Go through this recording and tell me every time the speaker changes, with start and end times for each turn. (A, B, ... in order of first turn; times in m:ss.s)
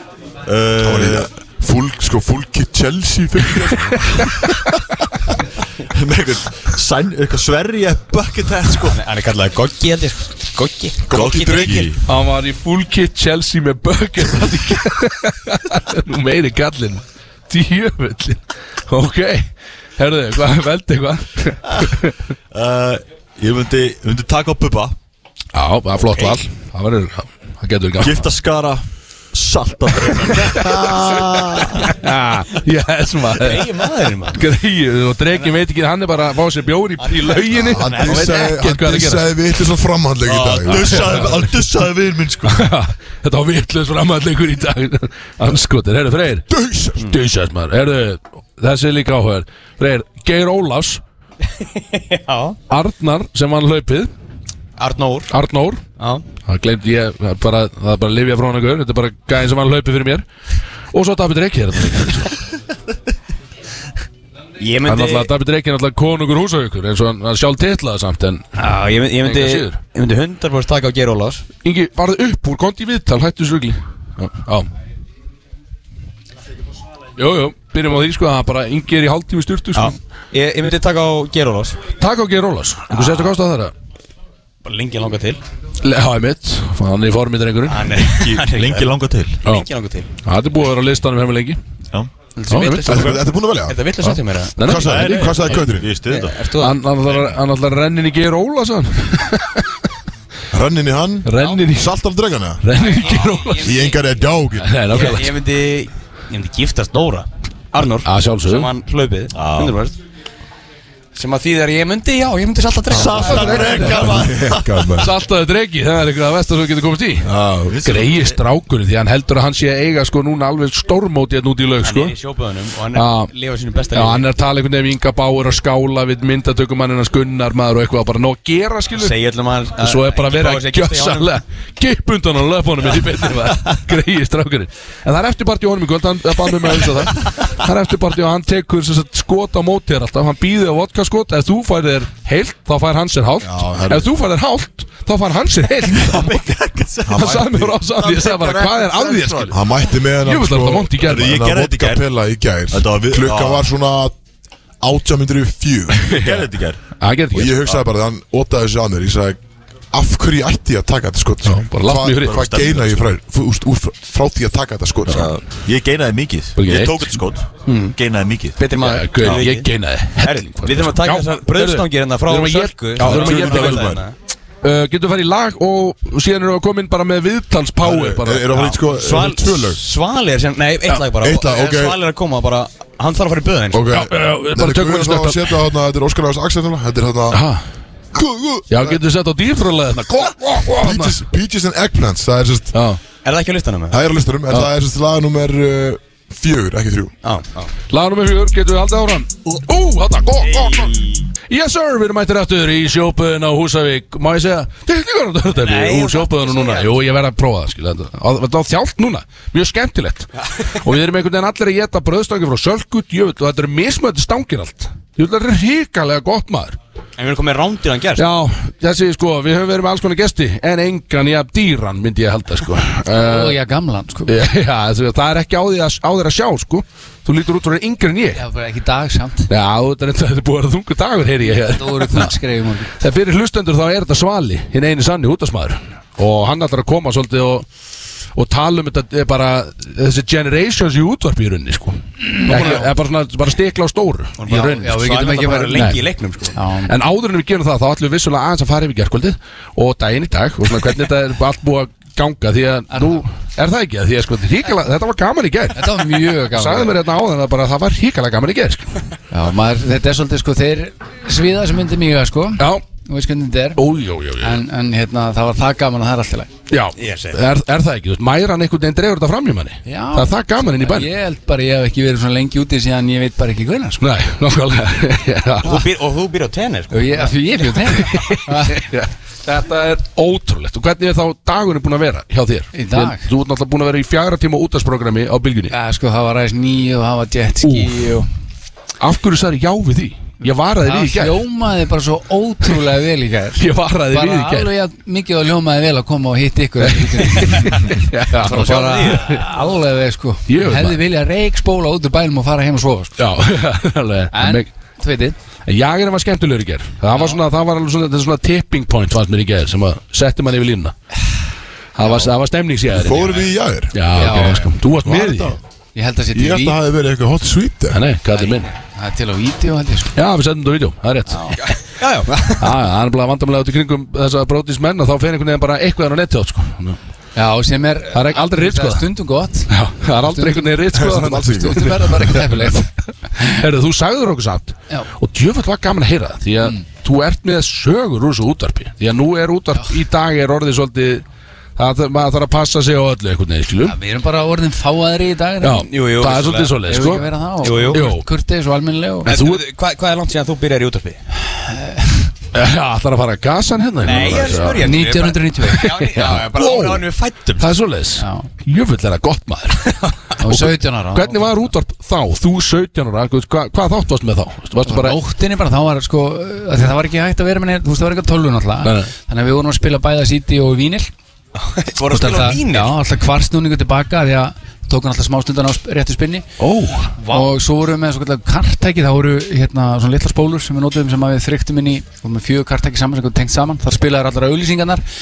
0:00.4-0:01.3 A
0:00.8-0:04.4 B
0:05.9-0:09.0 A
0:08.9-0:11.9 C
0:11.1-0:11.9 B
0:11.1-0:12.0 A
0:12.0-0:22.1 D
0:22.5-0:25.0 A
0:25.5-0:28.3 D
0:26.0-0:26.4 C
0:28.0-0:31.9 A
0:30.4-0:30.8 D
0:31.8-0:33.7 D
0:33.4-0:34.4 C
0:34.3-0:39.2 D
0:37.1-0:38.6 C
0:37.5-0:41.3 B
0:40.2-0:42.6 A
0:40.6-0:41.5 D
0:42.4-0:46.5 D
0:46.5-0:47.0 B
0:47.0-0:51.0 D
0:51.6-0:52.6 C
0:52.7-0:54.1 D
0:54.8-0:55.3 C
0:55.3-0:55.8 D
0:56.0-0:56.2 C
0:56.4-1:00.2 D
1:00.9-1:02.4 D
1:04.6-1:05.3 C
1:04.8-1:08.5 D
1:08.6-1:11.4 C
1:09.2-1:09.8 D
1:11.6-1:14.7 D
1:17.2-1:20.0 D
1:19.7-1:21.8 C
1:22.0-1:23.7 D
1:22.9-1:23.3 C
1:24.6-1:25.4 C
1:25.8-1:28.0 D
1:27.7-1:28.9 C
1:28.1-1:29.4 A
1:29.4-1:30.1 C
1:30.2-1:31.6 D
1:32.3-1:36.8 C
1:32.5-1:33.1 D
1:32.8-1:33.8 B
1:34.6-1:35.6 D
1:34.6-1:35.9 B
1:35.4-1:36.4 A
1:36.6-1:39.7 D
1:40.5-1:42.6 B
1:41.2-1:41.9 D
1:41.3-1:41.6 C
1:42.6-1:43.7 D
1:42.7-1:44.0 C
1:43.6-1:44.7 B
1:44.6-1:45.4 D
1:44.9-1:49.9 C
1:47.8-1:48.7 D
1:49.3-1:49.8 A
1:51.1-1:54.4 C
1:52.9-1:55.0 A
1:53.2-1:54.2 D
1:53.3-1:55.1 B
1:55.0-2:02.1 D
1:57.2-1:57.8 B
1:57.6-1:58.4 A
2:01.8-2:04.3 C
2:02.9-2:03.3 D
2:03.9-2:09.1 D
2:08.9-2:11.3 C
2:09.8-2:26.4 D
2:23.4-2:24.1 B
2:25.8-2:29.5 A
2:27.0-2:27.7 B
2:27.1-2:31.4 D
2:29.5-2:34.2 B
2:31.0-2:32.0 A
2:32.7-2:33.7 A
2:34.8-2:36.1 B
2:36.1-2:36.4 D
2:36.1-2:36.9 A
2:37.0-2:37.6 D
2:37.3-2:39.4 B
2:39.9-2:45.3 B
2:41.4-2:42.4 D
2:42.2-2:43.2 A
2:45.1-2:48.6 A
2:46.6-2:47.2 D
2:47.6-2:48.0 C
2:48.6-2:54.1 C
2:48.8-2:54.0 D
2:49.2-2:49.4 A
2:53.0-2:53.7 A
2:53.0-2:54.0 B
2:54.6-2:58.6 D
2:57.8-2:59.8 B
2:58.5-3:03.8 C
3:01.2-3:02.0 B
3:03.7-3:07.4 B
3:03.9-3:05.7 D
3:07.3-3:07.6 D
3:08.1-3:09.0 B
3:08.7-3:11.2 D
3:10.8-3:12.8 B
3:12.7-3:13.0 D
3:13.2-3:14.0 C
3:13.9-3:17.1 B
3:17.2-3:17.7 C
3:17.9-3:36.8 D
3:20.4-3:21.2 C
3:25.6-3:26.9 C
3:37.2-3:38.2 C
3:38.2-3:43.6 D
3:43.1-3:44.3 E
3:44.3-3:48.4 D
3:48.3-3:49.5 E
3:49.5-3:52.4 D
3:51.5-3:52.9 E
3:53.0-3:57.7 D
3:58.3-4:06.0 D
4:02.3-4:02.9 E
4:04.4-4:06.5 C
4:04.5-4:06.0 E
4:06.5-4:06.9 E
4:06.8-4:19.0 D
4:12.9-4:13.2 E
4:15.7-4:17.0 E
4:19.3-4:23.8 E
4:22.6-4:22.8 D
4:23.8-4:24.6 D
4:24.4-4:26.5 E
4:26.7-4:31.1 D
4:27.0-4:27.4 C
4:29.8-4:34.0 E
4:34.0-4:35.8 D
4:35.6-4:37.6 C
4:36.9-4:38.8 E
4:37.8-4:45.7 D
4:42.7-4:43.2 E
4:45.7-4:48.3 E
4:47.6-4:48.2 D
4:49.0-4:51.4 D
4:50.4-5:03.1 E
4:53.6-4:54.7 D
4:56.8-4:59.4 D
4:58.4-4:59.2 C
5:00.5-5:01.0 D
5:03.2-5:04.7 D
5:04.3-5:05.4 E
5:05.6-5:11.0 D
5:11.9-5:15.6 D
5:12.0-5:12.3 E
5:12.9-5:14.2 B
5:14.1-5:14.8 E
5:15.0-5:15.6 B
5:15.9-5:16.8 E
5:16.3-5:18.0 B
5:17.9-5:18.7 D
5:18.7-5:20.1 E
5:20.1-5:21.8 D
5:21.3-5:22.7 C
5:22.6-5:27.0 D
5:27.3-5:33.6 E
5:28.1-5:29.0 D
5:29.7-5:41.2 D
5:30.9-5:32.4 B
5:41.8-5:44.0 D
5:43.8-5:45.9 E
5:45.6-5:48.3 D
5:45.8-5:47.0 C
5:46.8-5:49.3 E
5:47.6-5:48.0 C
5:49.2-5:51.2 C
5:49.2-5:49.6 D
5:51.4-5:52.3 E
5:52.5-5:57.0 D
5:54.0-5:57.7 C
5:54.1-5:55.9 E
5:57.6-6:05.2 D
5:58.2-5:58.5 E
6:00.4-6:01.6 E
6:04.8-6:11.1 E
6:08.8-6:09.1 D
6:11.6-6:12.9 C
6:12.1-6:16.5 E
6:16.6-6:17.2 D
6:17.2-6:25.0 E